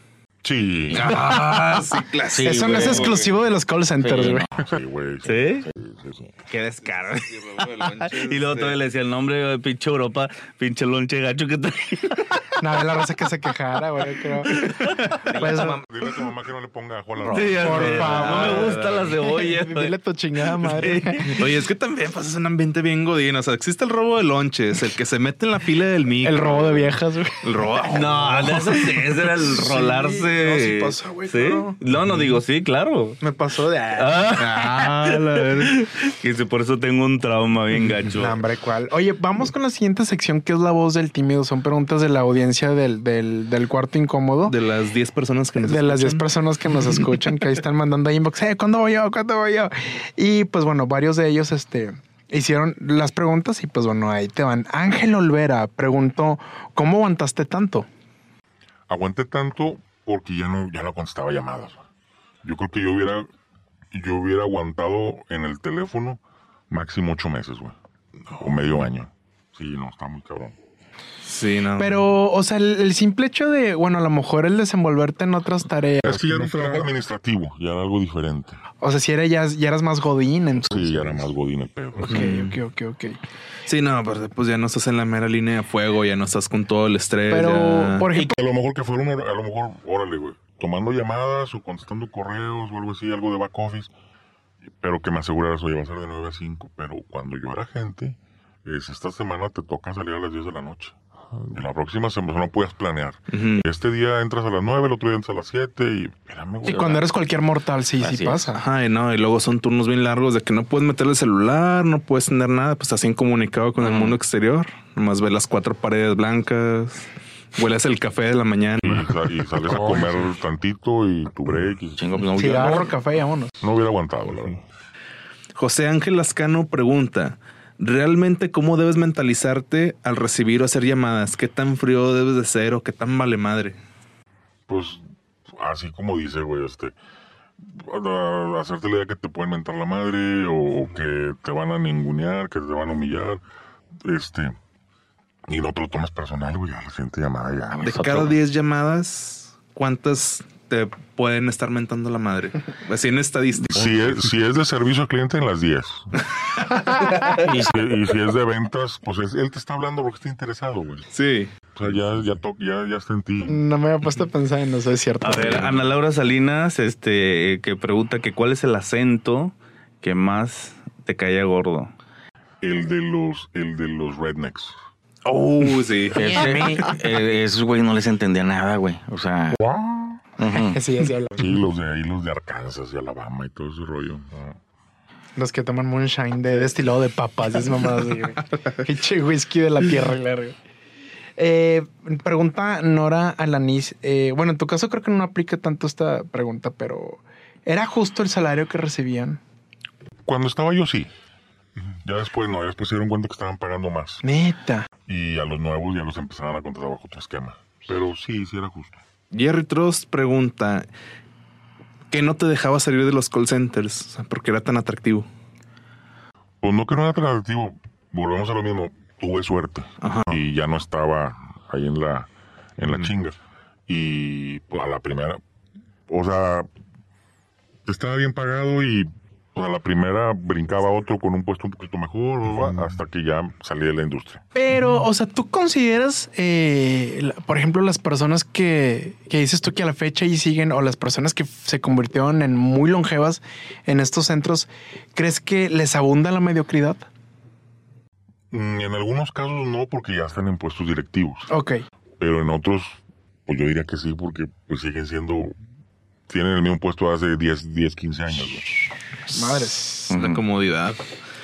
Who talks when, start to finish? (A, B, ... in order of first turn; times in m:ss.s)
0:00.4-0:01.2 A
0:00.9-0:03.2 B
0:02.3-0:03.3 C
0:02.4-0:04.4 D
0:04.0-0:04.5 C
0:04.5-0:06.4 A
0:05.2-0:05.7 E
0:06.5-0:12.5 E
0:07.0-0:08.8 B
0:12.6-0:15.8 D
0:14.4-0:15.5 E
0:15.2-0:15.8 C
0:15.8-0:18.4 A
0:17.2-0:17.6 C
0:17.3-0:19.9 E
0:17.6-0:19.1 B
0:17.6-0:21.4 D
0:20.4-0:21.5 E
0:21.3-0:29.2 B
0:26.2-0:27.4 D
0:27.8-0:33.2 E
0:29.4-0:31.8 D
0:31.9-0:32.4 B
0:33.2-0:34.3 D
0:33.9-0:38.4 E
0:34.3-0:35.8 B
0:37.8-0:38.0 B
0:38.1-0:44.6 D
0:44.5-0:47.3 B
0:45.6-0:57.9 D
0:58.9-1:01.8 A
1:02.4-1:03.3 A
1:03.9-1:07.8 A
1:08.3-1:10.6 A
1:11.2-1:12.0 B
1:11.8-1:16.8 D
1:16.0-1:18.6 A
1:18.8-1:21.1 D
1:20.6-1:22.4 A
1:22.0-1:23.2 D
1:22.1-1:22.6 B
1:23.6-1:28.1 B
1:27.3-1:28.4 D
1:28.1-1:33.9 A
1:34.7-1:47.1 A
1:43.3-1:43.6 B
1:46.6-1:48.6 D
1:48.0-1:48.5 C
1:48.6-2:00.1 B
1:53.8-1:54.2 C
1:58.8-2:02.8 A
2:02.0-2:03.0 C
2:02.3-2:03.5 D
2:03.6-2:04.6 A
2:05.6-2:13.8 B
2:14.7-2:16.9 A
2:17.6-2:23.4 A
2:24.0-2:24.6 A
2:25.5-2:28.4 A
2:27.8-2:28.3 C
2:27.8-2:34.2 B
2:33.7-2:36.1 A
2:37.3-2:37.8 C
2:37.5-2:41.0 A
2:41.1-2:41.5 B
2:41.7-2:43.6 A
2:43.4-2:45.7 D
2:45.2-2:51.9 E
2:52.6-2:54.7 A
2:55.2-2:56.7 B
2:56.1-2:59.6 C
2:56.2-2:56.8 D
2:59.6-3:00.2 A
3:00.4-3:00.8 C
3:00.6-3:01.5 D
3:01.4-3:04.5 A
3:05.4-3:10.6 D
3:11.4-3:19.4 D
3:20.2-3:21.1 A
3:22.0-3:24.2 A
3:24.2-3:24.9 D
3:25.0-3:29.0 A
3:29.3-3:30.9 B
3:32.1-3:35.3 B
3:36.6-3:45.4 A
3:40.0-3:40.4 B
3:46.1-3:46.7 A
3:47.8-3:54.4 A
3:54.5-4:07.1 D
4:08.5-4:11.5 A
4:11.5-4:11.8 D
4:12.2-4:15.5 A
4:16.3-4:18.7 A
4:19.3-4:20.2 D
4:19.3-4:21.0 B
4:20.1-4:20.4 C